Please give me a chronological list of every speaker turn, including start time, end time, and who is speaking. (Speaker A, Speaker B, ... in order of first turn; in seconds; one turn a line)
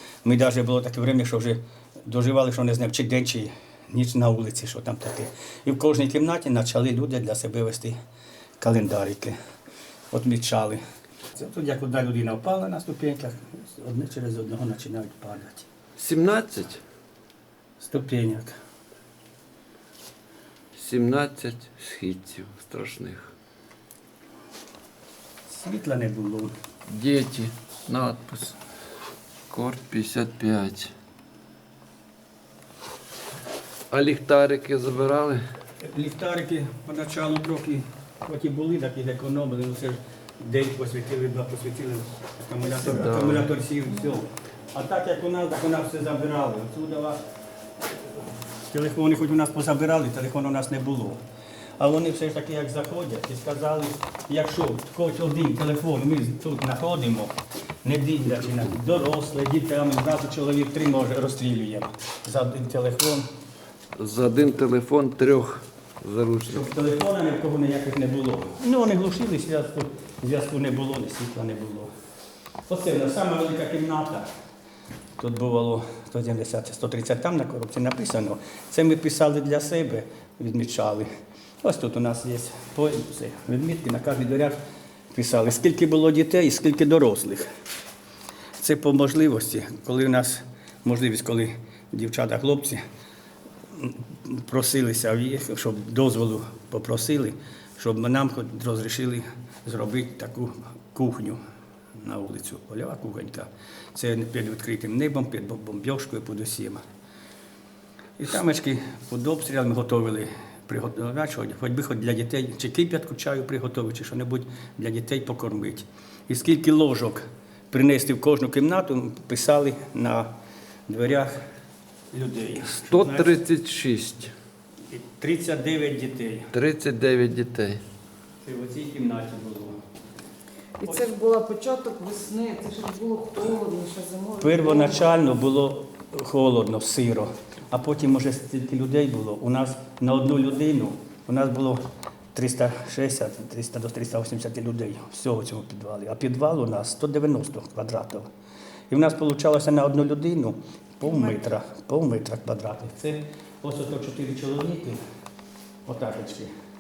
Speaker A: 0.2-8.0
Speaker A: 8.6-9.3
Speaker A: 10.1-10.8
Speaker A: 11.3-15.7
Speaker B: 16.0-16.8
Speaker A: 17.8-18.6
Speaker B: 20.8-23.3
Speaker A: 25.5-26.5
Speaker B: 26.9-28.6
Speaker B: 29.5-30.9
Speaker B: 33.9-35.4
Speaker A: 35.8-47.2
Speaker B: 42.7-43.5
Speaker A: 48.7-51.2
Speaker A: 51.8-63.3
Speaker B: 64.0-66.6
Speaker A: 66.5-71.9
Speaker A: 72.7-74.3
Speaker A: 75.2-81.1
Speaker A: 81.6-84.6
Speaker A: 85.1-87.5
Speaker A: 88.6-92.8
Speaker A: 93.7-101.4
Speaker A: 102.0-106.8
Speaker A: 108.2-120.3
Speaker A: 120.9-121.3
Speaker A: 122.1-123.4
Speaker B: 122.7-124.3
Speaker A: 124.9-126.5
Speaker B: 126.5-127.8
Speaker A: 128.4-129.8
Speaker C: 130.8-135.0
Speaker A: 134.4-141.8
Speaker A: 142.3-148.3
Speaker A: 148.9-155.0
Speaker A: 155.9-156.5